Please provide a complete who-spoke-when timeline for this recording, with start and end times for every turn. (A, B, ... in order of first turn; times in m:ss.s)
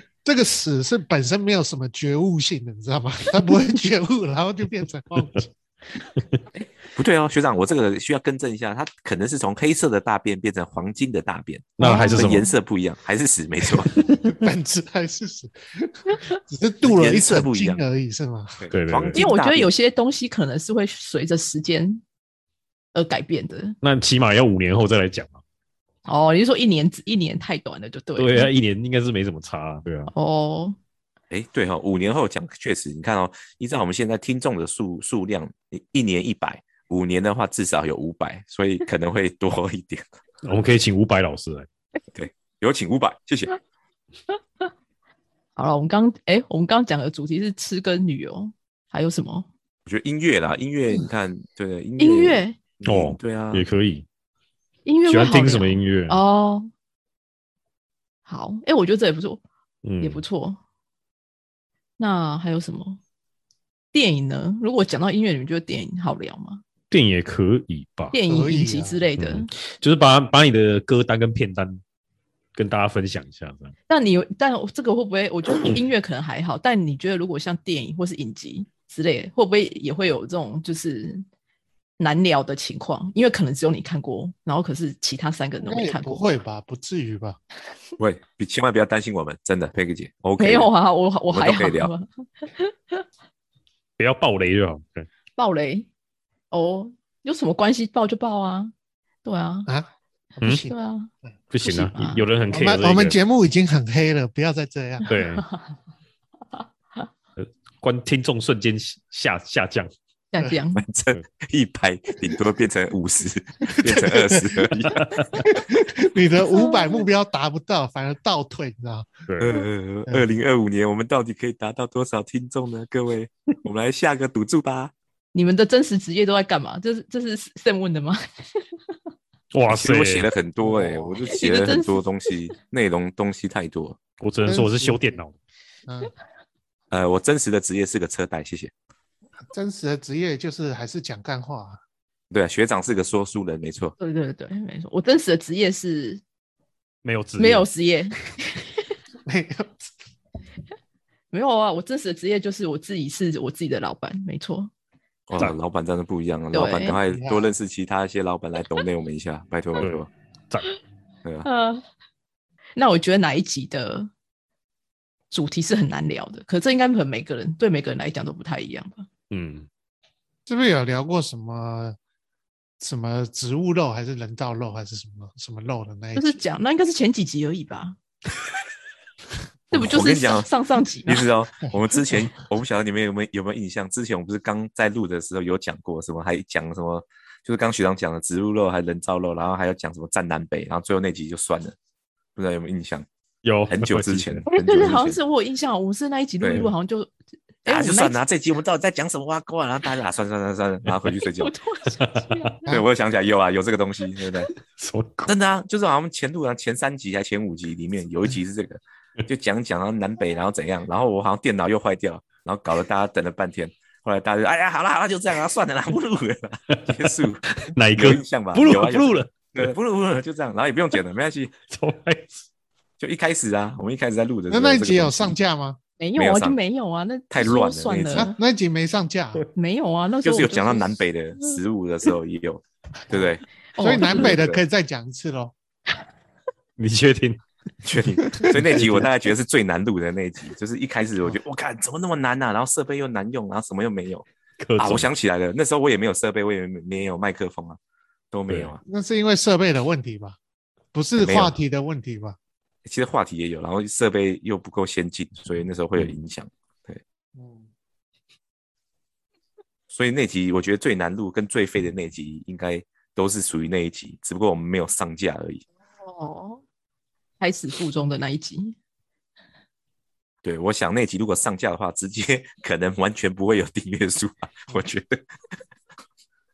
0:00.2-0:05.5 A
0:06.5-0:14.0 B
0:11.8-0:12.4 C
0:11.8-0:12.5 D
0:14.2-0:18.7 A
0:16.8-0:17.8 B
0:18.6-0:19.7 B
0:18.7-0:19.2 C
0:19.1-0:22.0 D
0:22.9-0:23.8 D
0:23.8-0:25.4 C
0:26.1-0:28.5 D
0:28.2-0:30.1 C
0:30.1-0:30.8 D
0:31.3-0:40.1 B
0:40.4-0:41.7 C
0:42.1-0:43.6 B
0:45.6-0:49.5 D
0:49.9-0:53.7 B
0:52.0-0:52.6 D
0:52.8-0:54.0 C
0:54.9-0:56.7 D
0:55.1-0:56.2 C
0:58.3-0:59.4 D
0:59.8-1:00.2 C
1:00.0-1:00.6 D
1:02.0-1:03.0 D
1:03.9-1:06.6 D
1:06.9-1:08.2 C
1:08.1-1:09.5 D
1:08.3-1:09.0 A
1:09.2-1:11.8 C
1:12.6-1:13.7 C
1:13.9-1:21.2 D
1:22.0-1:26.2 D
1:25.6-1:27.4 A
1:28.0-1:30.7 B
1:30.4-1:33.0 D
1:31.3-1:31.9 B
1:34.0-1:35.1 C
1:35.4-1:35.9 D
1:36.5-1:38.7 D
1:39.2-1:39.7 D
1:40.4-1:41.1 D
1:40.4-1:40.7 A
1:41.5-1:43.2 C
1:41.6-1:42.3 D
1:42.5-1:45.1 A
1:45.1-1:45.4 C
1:45.2-1:45.7 D
1:47.4-1:49.9 C
1:50.3-1:50.8 D
1:50.8-1:55.6 B
1:53.8-1:54.7 A
1:54.7-1:55.5 C
1:55.5-1:59.1 A
1:56.5-1:57.0 D
1:59.3-1:59.6 C
1:59.4-2:04.9 B
2:05.3-2:08.2 D
2:09.5-2:10.3 C
2:09.7-2:14.0 B
2:10.6-2:11.3 A
2:11.3-2:12.1 D
2:14.2-2:15.4 C
2:14.4-2:15.2 A
2:16.9-2:18.7 B
2:19.5-2:21.8 A
2:22.3-2:24.0 B
2:24.0-2:26.2 D
2:27.0-2:27.7 C
2:27.4-2:28.6 D
2:29.3-2:29.8 A
2:31.3-2:34.7 D
2:35.3-2:40.1 B
2:36.5-2:37.0 D
2:37.1-2:37.5 A
2:39.8-2:40.8 C
2:41.4-2:41.8 D
2:42.8-2:44.1 D
2:45.3-2:49.1 D
2:49.3-2:49.7 C
2:50.5-2:52.0 A
2:52.8-2:56.4 A
2:56.2-2:58.0 D
2:59.7-3:00.5 B
2:59.7-3:01.2 D
3:01.0-3:11.8 B
3:12.4-3:13.1 B
3:13.4-3:14.5 C
3:13.7-3:15.2 B
3:14.5-3:18.2 D
3:16.4-3:16.7 B
3:17.7-3:21.5 B
3:20.9-3:21.2 C
3:21.4-3:22.6 D
3:22.0-3:22.5 C
3:22.7-3:24.5 B
3:24.7-3:25.3 C
3:25.3-3:41.6 B
3:36.9-3:39.7 C
3:41.7-3:42.4 C
3:43.0-3:45.4 B
3:44.5-3:45.8 A
3:46.0-3:48.4 D
3:46.2-3:46.6 B
3:47.3-3:48.3 B
3:48.1-3:49.4 A
3:49.5-3:51.0 D
3:50.2-3:53.5 B
3:53.7-3:54.4 D
3:53.8-3:55.5 A
3:54.0-3:54.6 B
3:56.8-3:57.4 C
3:57.8-4:04.3 B
3:58.3-3:59.1 C
4:04.6-4:05.1 C
4:04.8-4:07.8 B
4:08.3-4:08.8 B
4:08.8-4:10.4 A
4:10.9-4:12.4 A
4:11.2-4:11.6 B
4:12.8-4:17.0 B
4:17.4-4:17.7 A
4:19.9-4:25.6 B
4:26.0-4:26.6 D
4:27.4-4:28.8 D
4:30.4-4:35.2 B